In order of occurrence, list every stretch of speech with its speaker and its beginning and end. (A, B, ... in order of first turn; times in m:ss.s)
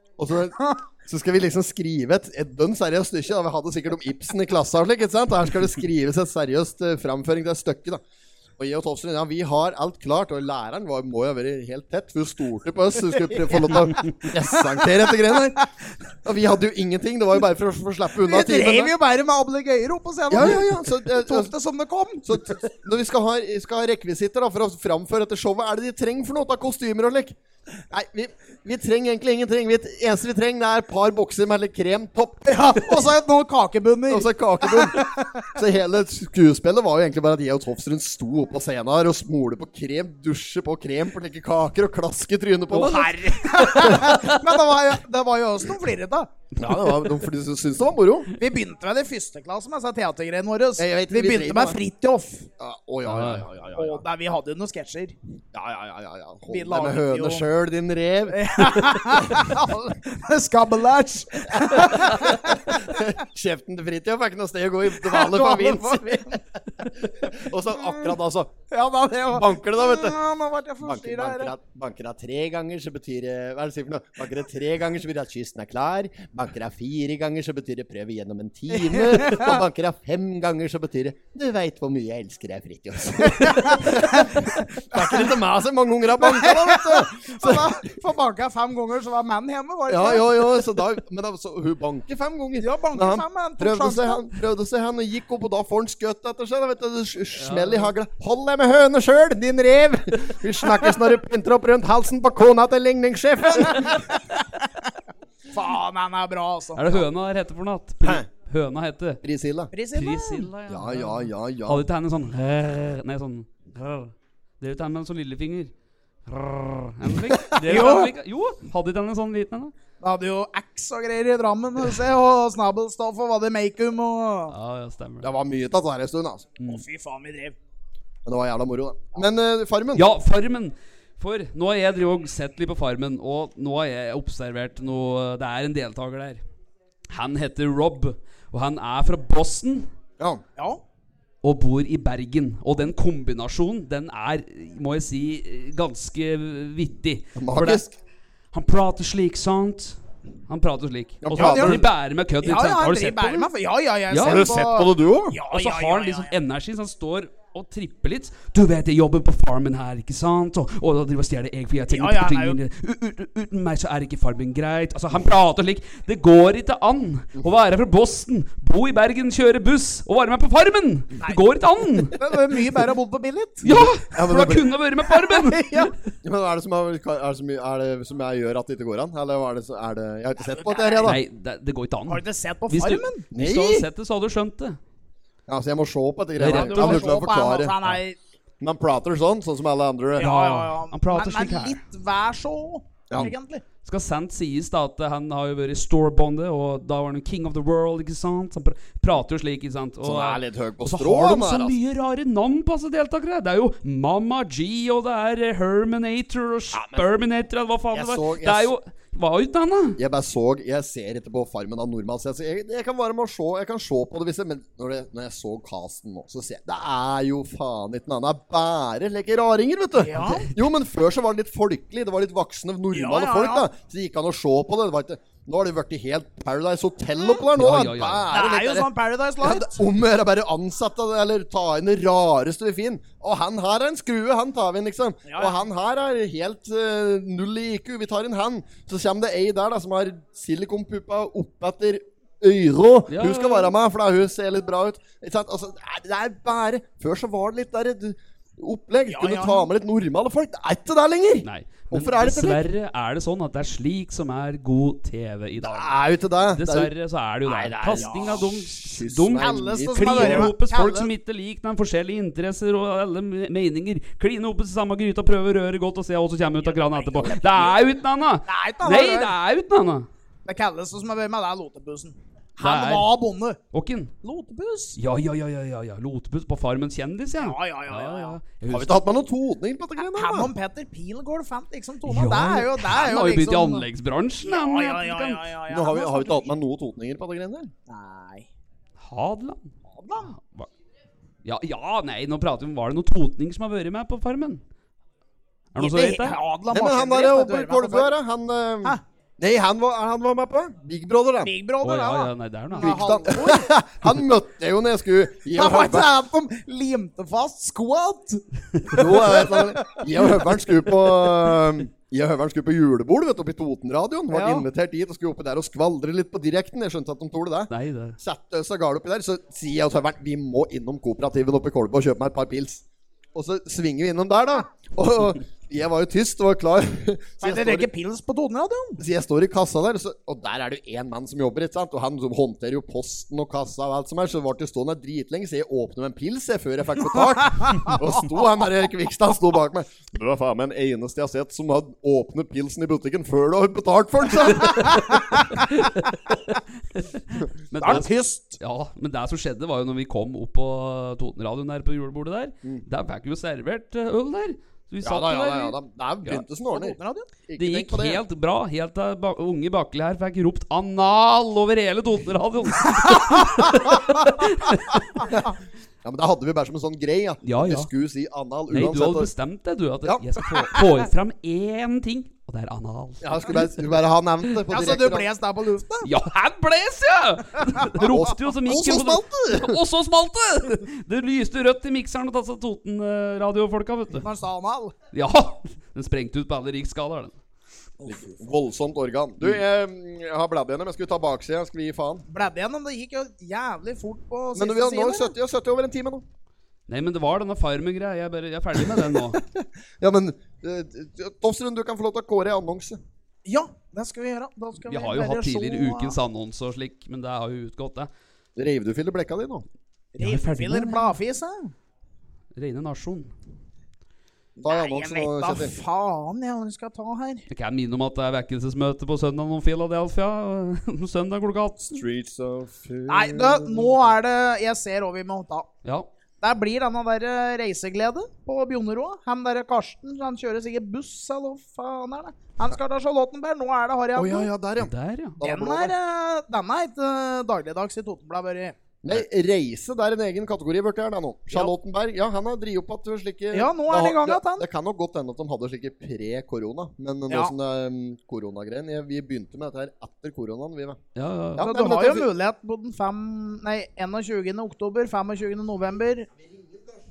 0:00.2-0:08.0 A
0:08.6-0:15.6 A
0:13.3-0:15.6 B
0:16.2-0:18.9 A
0:18.2-0:22.6 B
0:20.3-0:21.5 A
0:22.2-0:27.4 A
0:27.9-0:32.9 A
0:32.4-0:35.5 B
0:34.1-0:44.3 A
0:42.7-0:44.2 C
0:42.8-0:46.3 B
0:46.6-0:48.3 A
0:48.4-0:52.5 B
0:50.8-0:51.8 A
0:52.6-0:54.0 A
0:53.0-0:53.4 C
0:53.7-0:55.2 B
0:55.5-0:59.9 A
0:56.5-0:57.5 B
0:58.3-1:03.0 B
1:01.5-1:08.5 A
1:05.0-1:06.4 B
1:08.7-1:11.5 B
1:09.3-1:10.2 A
1:10.8-1:27.9 A
1:18.7-1:19.6 B
1:23.2-1:25.2 B
1:26.2-1:30.6 B
1:29.9-1:44.0 A
1:32.6-1:34.2 B
1:37.4-1:37.9 C
1:43.5-1:44.6 B
1:45.5-1:47.0 B
1:46.8-1:49.2 C
1:49.2-1:49.7 A
1:49.7-1:50.5 B
1:49.9-1:55.7 C
1:50.7-1:51.8 A
1:56.2-1:59.7 C
1:57.6-1:58.1 B
2:00.0-2:04.5 B
2:04.5-2:05.3 C
2:05.2-2:06.5 A
2:06.6-2:07.6 B
2:08.2-2:10.1 A
2:09.9-2:16.4 C
2:17.1-2:19.9 C
2:21.4-2:27.9 C
2:27.4-2:27.9 A
2:28.5-2:33.5 C
2:31.2-2:31.9 A
2:31.3-2:31.8 B
2:32.4-2:36.3 B
2:34.1-2:34.4 C
2:34.2-2:35.4 A
2:35.5-2:52.2 C
2:41.9-2:42.6 B
2:52.1-2:53.7 B
2:53.6-2:55.9 C
2:53.8-2:54.7 A
2:55.1-2:55.9 B
2:56.2-3:01.2 A
3:00.4-3:01.1 B
3:01.0-3:04.8 C
3:02.1-3:03.2 B
3:03.3-3:03.9 A
3:05.5-3:07.9 A
3:06.4-3:07.1 C
3:06.5-3:08.2 B
3:08.6-3:10.3 A
3:10.2-3:13.6 B
3:10.2-3:11.8 C
3:13.8-3:30.0 C
3:20.0-3:21.8 A
3:26.7-3:27.1 A
3:27.9-3:28.7 A
3:30.0-4:12.6 A
3:40.0-3:40.5 B
3:42.9-3:43.7 B
3:47.5-3:48.3 C
3:48.3-3:49.8 B
3:55.2-3:55.6 B
4:03.1-4:03.7 C
4:09.1-4:09.7 B
4:11.4-4:30.1 C
4:15.6-4:16.9 A
4:17.4-4:20.5 A
4:17.9-4:18.4 B
4:19.4-4:21.1 B
4:26.6-4:27.7 B
4:27.2-4:27.8 A
4:28.4-4:29.3 B
4:30.4-4:33.6 B
4:32.6-4:33.1 C
4:33.7-4:34.1 C
4:34.2-4:35.0 B
4:35.0-4:39.1 C
4:37.4-4:38.4 B
4:38.7-4:40.5 A
4:40.0-4:43.8 B
4:42.0-4:45.5 C
4:44.4-4:46.5 B
4:45.7-4:47.7 A
4:47.9-4:48.5 B
4:49.0-4:49.7 C
4:49.9-4:50.3 B
4:50.3-4:50.7 C
4:51.4-4:54.6 C
4:55.7-4:56.4 C
4:55.8-4:58.1 B
4:56.7-5:01.5 A
5:01.4-5:03.7 B
5:01.8-5:03.1 C
5:02.8-5:06.1 A
5:05.5-5:10.0 B
5:08.9-5:22.8 A
5:14.3-5:14.7 B
5:17.7-5:18.2 C
5:23.3-5:27.9 A
5:27.4-5:29.0 B
5:29.0-5:45.4 A
5:37.5-5:37.9 B
5:45.1-5:45.6 B
5:45.7-5:56.4 C
5:47.8-5:48.6 B
5:47.8-5:48.1 A
5:55.0-5:58.2 A
5:56.7-5:57.3 B
5:57.6-6:05.3 C
6:06.0-6:09.3 A
6:07.4-6:07.9 C
6:08.7-6:13.7 C
6:13.2-6:15.3 A
6:14.7-6:16.1 B
6:16.0-6:24.3 C
6:18.1-6:19.8 A
6:24.2-6:24.9 B
6:25.1-6:27.4 C
6:28.0-6:28.4 B
6:28.0-6:32.2 A
6:32.3-6:35.3 B
6:34.5-6:36.2 A
6:36.9-6:39.4 C
6:39.0-6:43.0 A
6:43.4-6:46.1 B
6:44.9-6:48.1 C
6:48.6-6:49.6 A
6:50.2-6:51.7 B
6:50.2-6:51.1 C
6:52.5-6:53.3 C
6:54.6-6:57.4 B
6:54.6-6:55.7 A
6:57.5-7:01.9 C
7:01.8-7:04.1 A
7:03.1-7:05.7 B
7:06.4-7:14.5 B
7:14.1-7:15.9 A
7:14.8-7:15.4 C
7:15.4-7:18.8 B
7:19.0-7:31.0 A
7:23.5-7:24.6 B
7:31.1-7:31.7 C
7:31.6-7:32.3 A
7:31.6-7:36.3 B
7:36.6-7:36.9 A